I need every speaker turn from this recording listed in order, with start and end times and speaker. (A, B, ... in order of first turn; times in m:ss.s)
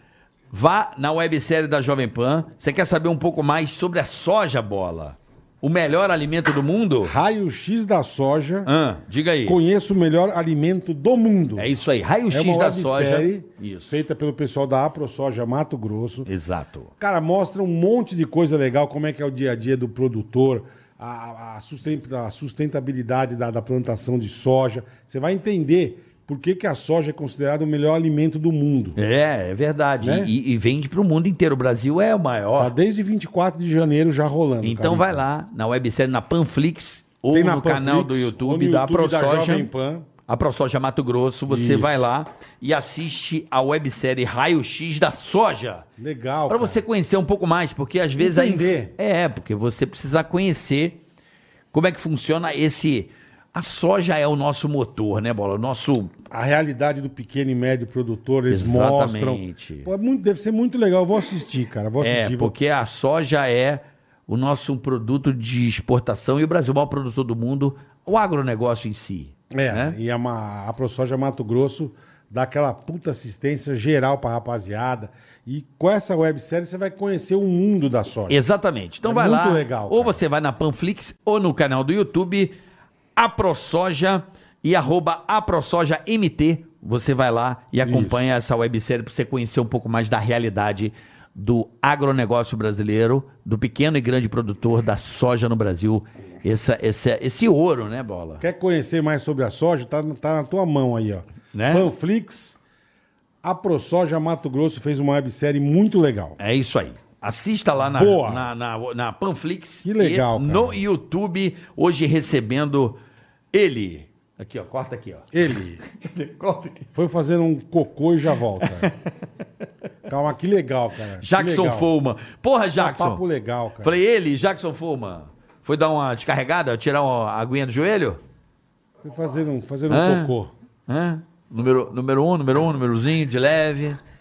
0:00.5-0:07.1 A
0:07.0-0:08.7 B
0:08.6-0:09.6 A
0:09.4-0:11.7 B
0:11.6-0:14.0 A
0:12.3-0:16.2 B
0:16.2-0:16.9 A
0:17.0-0:29.0 B
0:29.0-0:32.7 A
0:30.0-0:30.3 B
0:32.6-0:35.2 B
0:34.6-0:39.7 A
0:37.3-0:40.0 B
0:40.3-0:45.8 A
0:41.5-0:42.0 B
0:46.0-0:46.8 B
0:46.5-0:51.0 A
0:48.2-0:48.9 B
0:51.7-0:56.1 A
0:56.3-1:02.5 B
0:58.5-0:59.9 A
1:02.0-1:10.0 A
1:09.5-1:18.4 B
1:18.3-1:22.5 A
1:19.0-1:20.2 B
1:23.2-1:38.4 A
1:27.8-1:28.2 B
1:38.4-1:42.6 B
1:41.5-1:41.9 A
1:43.4-1:46.4 B
1:46.4-1:53.0 A
1:47.9-1:48.5 B
1:49.8-1:50.8 B
1:53.5-1:55.3 A
1:55.3-1:55.8 B
1:55.9-1:56.9 A
1:56.9-1:58.9 B
1:58.6-1:59.0 A
2:00.1-2:01.9 B
2:01.2-2:03.2 A
2:02.8-2:04.0 B
2:03.8-2:08.2 A
2:09.0-2:10.5 B
2:09.9-2:10.3 A
2:10.9-2:14.0 A